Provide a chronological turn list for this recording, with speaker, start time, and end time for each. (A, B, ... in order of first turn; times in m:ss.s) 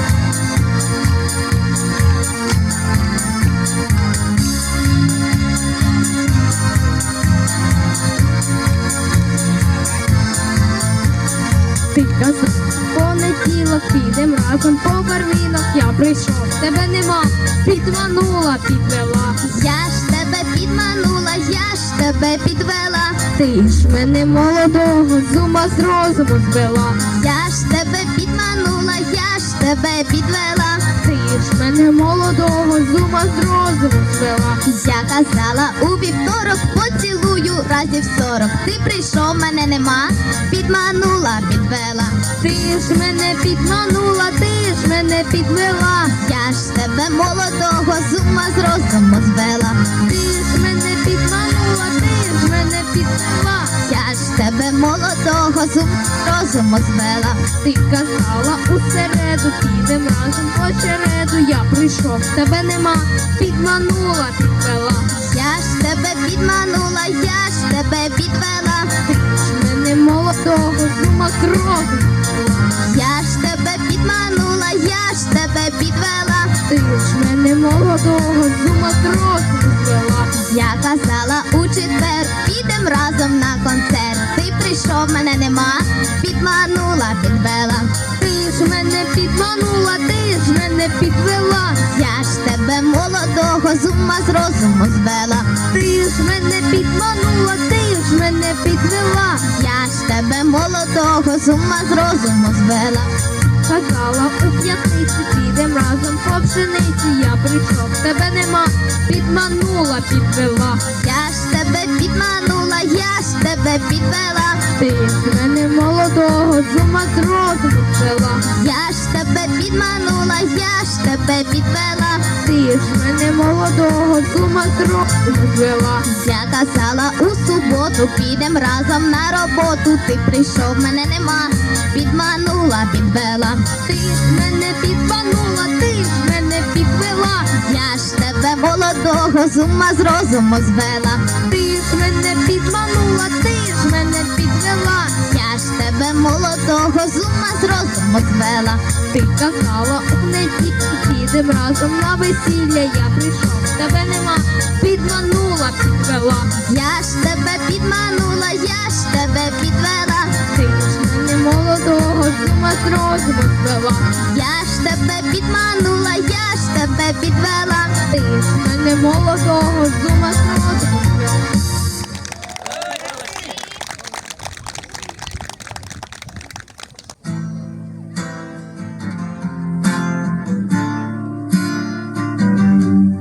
0:11.9-0:19.4 A
0:19.5-0:23.2 B
0:23.4-0:27.0 A
0:27.1-0:30.9 B
0:31.0-0:34.6 A
0:34.6-0:42.2 B
0:42.4-0:46.1 A
0:46.2-0:49.8 B
0:50.0-0:53.7 A
0:53.8-0:57.4 B
0:57.6-1:05.1 A
1:05.1-1:08.9 B
1:09.1-1:12.6 A
1:12.9-1:16.5 B
1:16.7-1:20.3 A
1:20.4-1:27.9 B
1:28.2-1:31.8 A
1:31.9-1:35.5 B
1:35.7-1:39.4 A
1:39.5-1:43.1 B
1:43.7-1:50.8 A
1:51.0-1:54.6 B
1:54.8-1:58.4 A
1:58.5-2:02.3 B
2:02.4-2:06.0 A
2:06.0-2:13.6 B
2:13.8-2:17.5 A
2:17.5-2:21.3 B
2:21.4-2:25.1 A
2:25.3-2:28.8 B
2:29.1-2:36.5 A
2:36.7-2:40.4 B
2:40.4-2:44.1 A
2:44.3-2:48.0 B
2:48.1-2:51.4 A